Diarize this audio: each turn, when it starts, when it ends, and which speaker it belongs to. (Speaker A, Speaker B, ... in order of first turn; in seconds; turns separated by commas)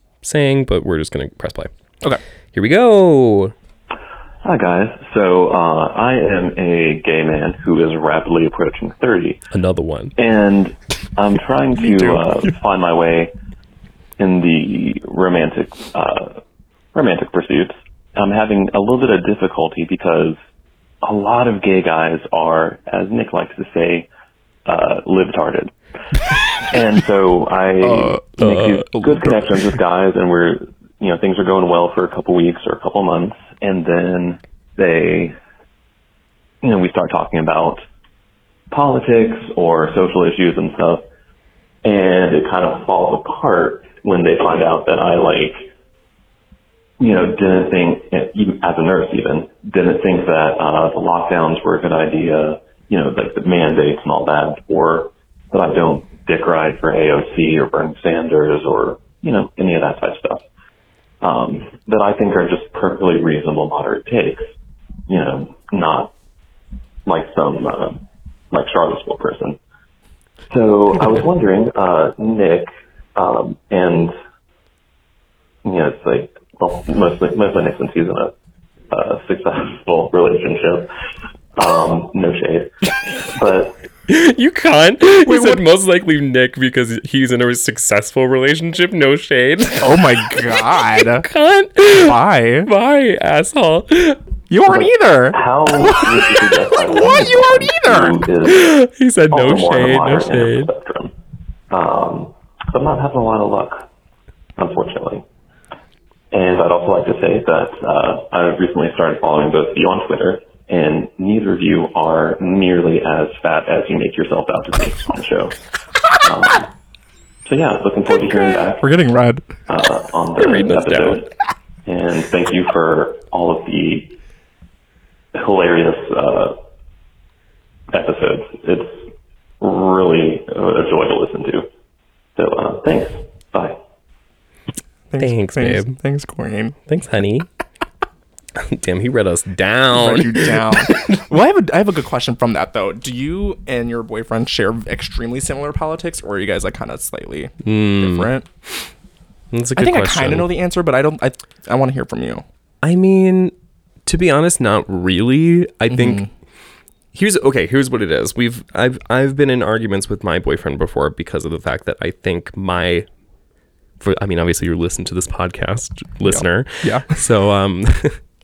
Speaker A: 0.2-1.7, Speaker A: 2.5-3.5, Speaker B: 4.4-9.4, Speaker A: 9.5-10.1, Speaker B: 10.2-13.3, Speaker C: 11.8-12.2, Speaker B: 14.2-16.4, Speaker B: 16.9-20.4, Speaker B: 21.0-24.1, Speaker B: 24.7-25.7, Speaker B: 26.7-35.4, Speaker C: 27.8-28.2, Speaker A: 28.4-29.7, Speaker B: 36.6-37.8, Speaker B: 38.7-41.0, Speaker B: 41.8-45.7, Speaker B: 47.0-60.4, Speaker B: 61.2-64.5, Speaker B: 65.1-66.1, Speaker B: 67.1-69.6, Speaker B: 70.5-74.1, Speaker B: 75.6-78.3, Speaker B: 78.9-80.9, Speaker B: 81.6-83.8, Speaker A: 84.1-94.2, Speaker C: 85.2-85.6, Speaker C: 89.8-91.3, Speaker C: 91.9-92.7, Speaker C: 94.5-98.2, Speaker B: 95.3-98.7, Speaker A: 98.5-100.7, Speaker B: 99.3-101.1, Speaker B: 101.7-103.9, Speaker B: 104.6-105.3, Speaker B: 106.3-115.6, Speaker B: 116.2-116.7, Speaker B: 117.5-118.9, Speaker C: 118.8-119.4, Speaker B: 119.7-121.3, Speaker A: 120.4-121.2, Speaker B: 121.9-124.1, Speaker B: 125.3-126.6, Speaker B: 127.9-131.7, Speaker B: 132.4-133.8, Speaker C: 135.1-136.8, Speaker A: 135.2-136.0, Speaker A: 136.9-137.5, Speaker A: 138.6-141.2, Speaker C: 139.9-148.5, Speaker A: 147.6-148.3, Speaker A: 149.5-150.5, Speaker C: 149.8-152.4, Speaker A: 152.8-153.5, Speaker A: 154.1-156.2, Speaker C: 155.9-156.3, Speaker A: 157.1-163.1, Speaker A: 164.0-168.2, Speaker C: 166.3-167.2